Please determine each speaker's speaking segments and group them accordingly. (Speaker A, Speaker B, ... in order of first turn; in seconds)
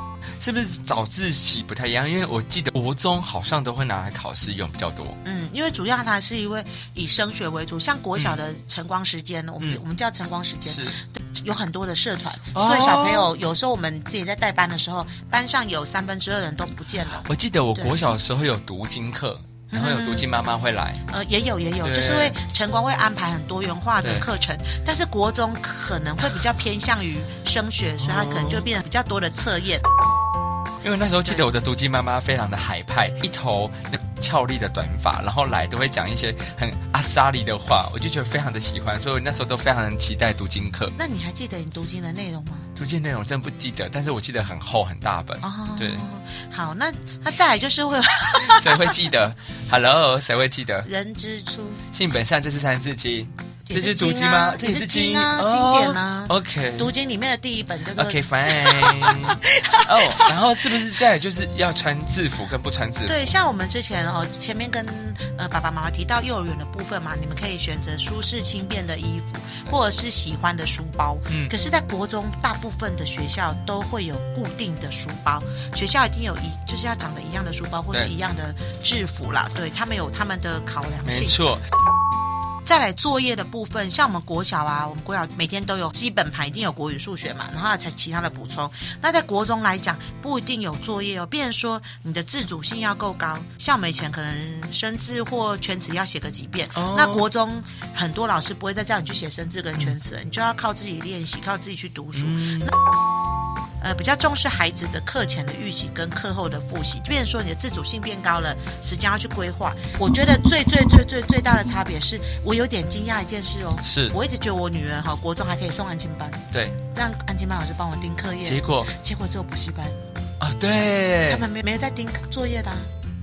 Speaker A: 0.4-5.2, 8.2-8.4, 10.6-11.0, 12.5-13.3, 17.3-21.0, 21.8-22.4, 24.0-24.3, 28.0-28.7, 30.8-41.0, 42.8-46.0, 48.5-50.9, 51.9-56.9, 58.0-63.3, 81.0-81.6, 96.7-97.3, 102.2-102.7, 113.8-114.2, 116.5-116.8, 118.4-118.9, 120.4-121.5
Speaker B: 5.2-18.1, 19.7-20.3, 21.1-29.8, 41.0-42.7, 45.4-49.0, 50.8-51.8, 53.7-60.4, 63.1-81.4, 82.7-102.7, 103.8-120.0, 121.3-122.9